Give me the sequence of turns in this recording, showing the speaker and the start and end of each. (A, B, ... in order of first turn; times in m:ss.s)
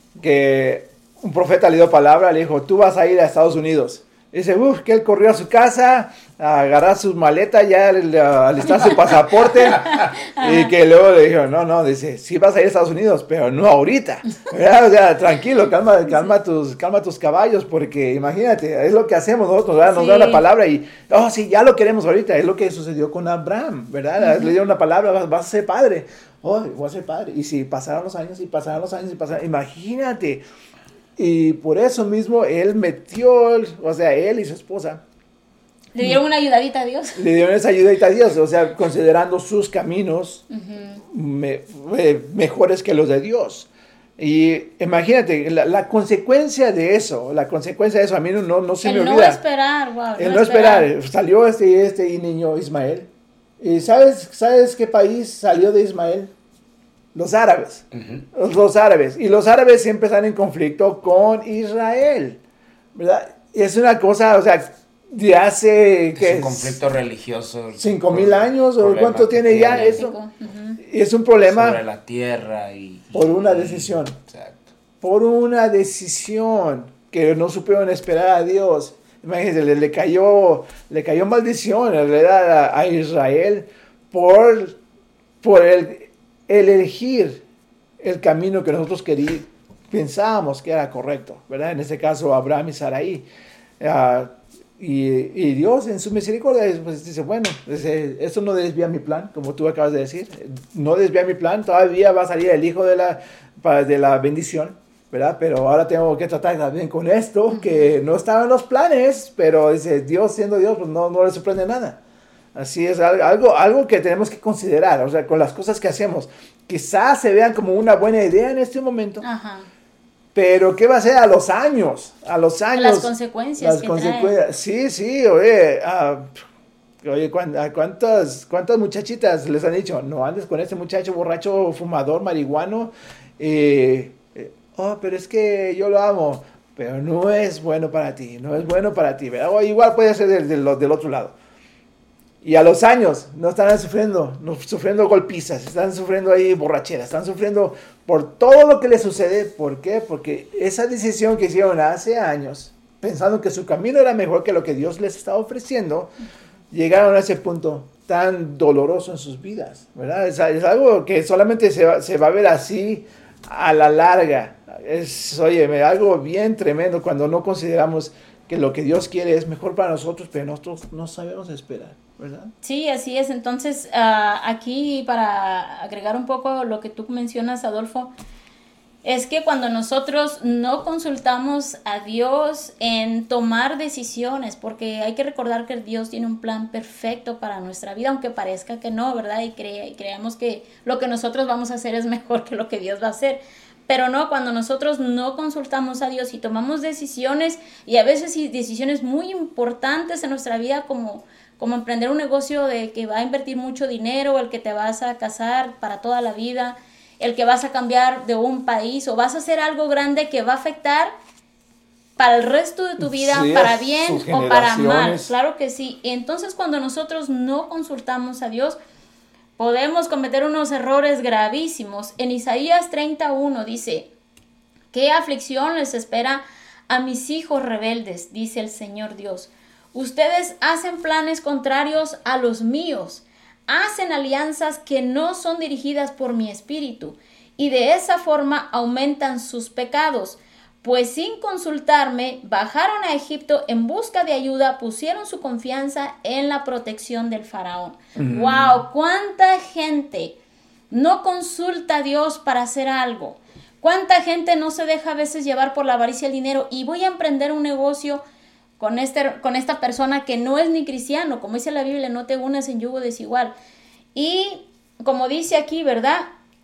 0:00.2-0:30.4 A
0:09.8-0:10.7 B
0:19.8-0:20.4 B
0:24.2-0:24.5 B
0:31.2-0:35.0 A
0:35.9-0:37.2 B
0:37.2-0:40.4 A
0:40.5-0:41.0 B
0:41.0-0:49.4 A
0:48.8-0:50.9 B
0:50.2-0:56.3 A
0:57.1-1:02.4 A
0:57.9-0:58.2 C
1:02.9-1:06.8 A
1:06.1-1:10.0 C
1:07.7-1:10.2 A
1:09.6-1:10.8 B
1:10.8-1:11.8 A
1:11.4-1:14.7 C
1:13.1-1:14.2 A
1:15.0-1:24.8 A
1:25.4-1:27.4 A
1:28.0-1:33.2 A
1:33.8-1:52.0 A
1:47.5-1:48.0 B
1:52.5-1:59.2 A
1:59.2-1:59.7 B
2:00.3-2:06.3 A
2:02.8-2:04.3 B
2:07.0-2:21.3 A
2:22.4-2:36.1 A
2:36.7-2:52.5 A
2:52.6-2:58.1 B
2:59.0-3:31.1 B
3:32.2-3:38.8 B
3:33.0-3:35.3 A
3:39.6-3:44.1 B
3:44.9-4:10.4 B
4:08.2-4:08.8 A
4:10.9-4:18.2 B
4:18.8-4:23.5 B
4:24.1-4:26.3 B